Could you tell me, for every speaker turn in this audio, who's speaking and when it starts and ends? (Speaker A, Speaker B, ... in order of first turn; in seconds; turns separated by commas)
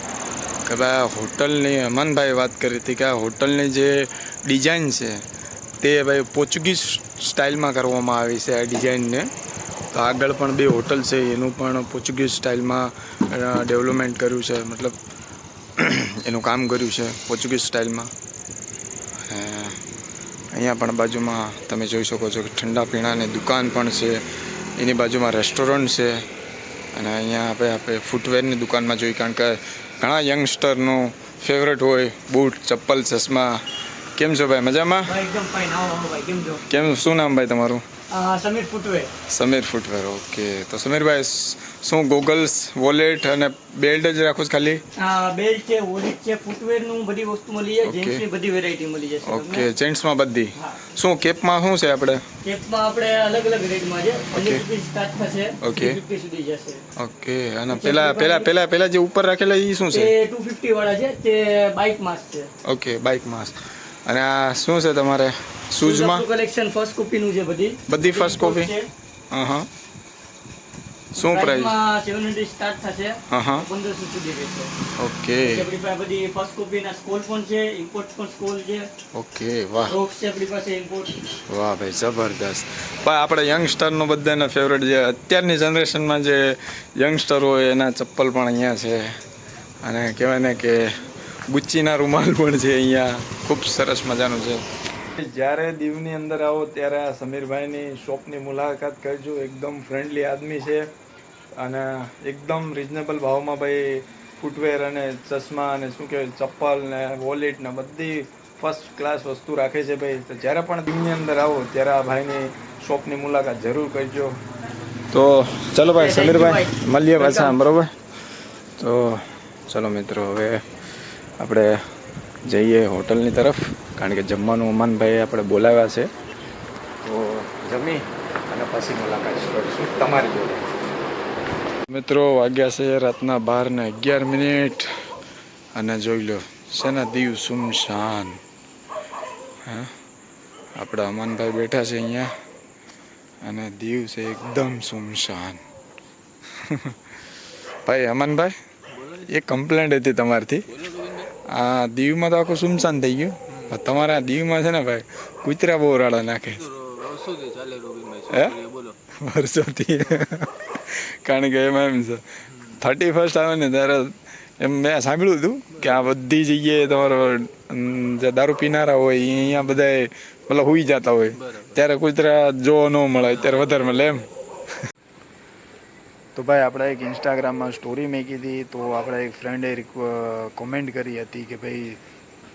Speaker A: 0.7-5.2, Speaker A: 5.8-9.3, Speaker A: 9.9-15.0, Speaker A: 15.8-18.1, Speaker A: 19.3-19.8, Speaker A: 20.5-24.2, Speaker A: 24.8-26.3, Speaker A: 26.9-33.6, Speaker A: 34.2-35.1, Speaker B: 35.1-36.6, Speaker A: 36.7-37.9, Speaker B: 38.1-39.1, Speaker A: 39.3-44.8, Speaker B: 45.0-49.7, Speaker A: 47.8-48.2, Speaker A: 49.2-52.2, Speaker B: 52.4-56.8, Speaker A: 54.3-54.6, Speaker A: 55.6-56.0, Speaker A: 57.0-60.1, Speaker B: 57.7-58.5, Speaker B: 59.9-62.5, Speaker A: 62.6-66.3, Speaker B: 65.8-68.9, Speaker A: 67.9-68.8, Speaker A: 69.3-69.7, Speaker A: 71.1-71.8, Speaker B: 71.2-74.7, Speaker A: 73.3-73.7, Speaker A: 75.0-75.7, Speaker B: 75.4-78.9, Speaker A: 79.1-80.0, Speaker B: 79.9-81.2, Speaker A: 81.5-89.2, Speaker A: 89.8-94.7, Speaker A: 95.2-100.9, Speaker A: 101.6-114.4, Speaker A: 115.1-117.9, Speaker B: 115.9-117.6, Speaker A: 118.8-120.7, Speaker A: 121.4-121.9, Speaker A: 122.5-126.1, Speaker A: 127.0-130.7, Speaker A: 131.9-134.9, Speaker A: 135.8-138.4, Speaker A: 139.7-139.9, Speaker A: 140.8-142.3, Speaker A: 143.4-145.6, Speaker A: 146.5-147.0, Speaker A: 147.8-148.6, Speaker C: 148.9-149.3, Speaker A: 149.3-150.7, Speaker C: 150.7-151.3, Speaker A: 151.4-156.7, Speaker C: 153.5-153.8, Speaker C: 156.6-159.0, Speaker A: 158.3-158.6, Speaker A: 159.1-174.3, Speaker C: 165.8-166.1, Speaker C: 171.4-171.8, Speaker C: 173.3-173.9, Speaker A: 176.4-182.0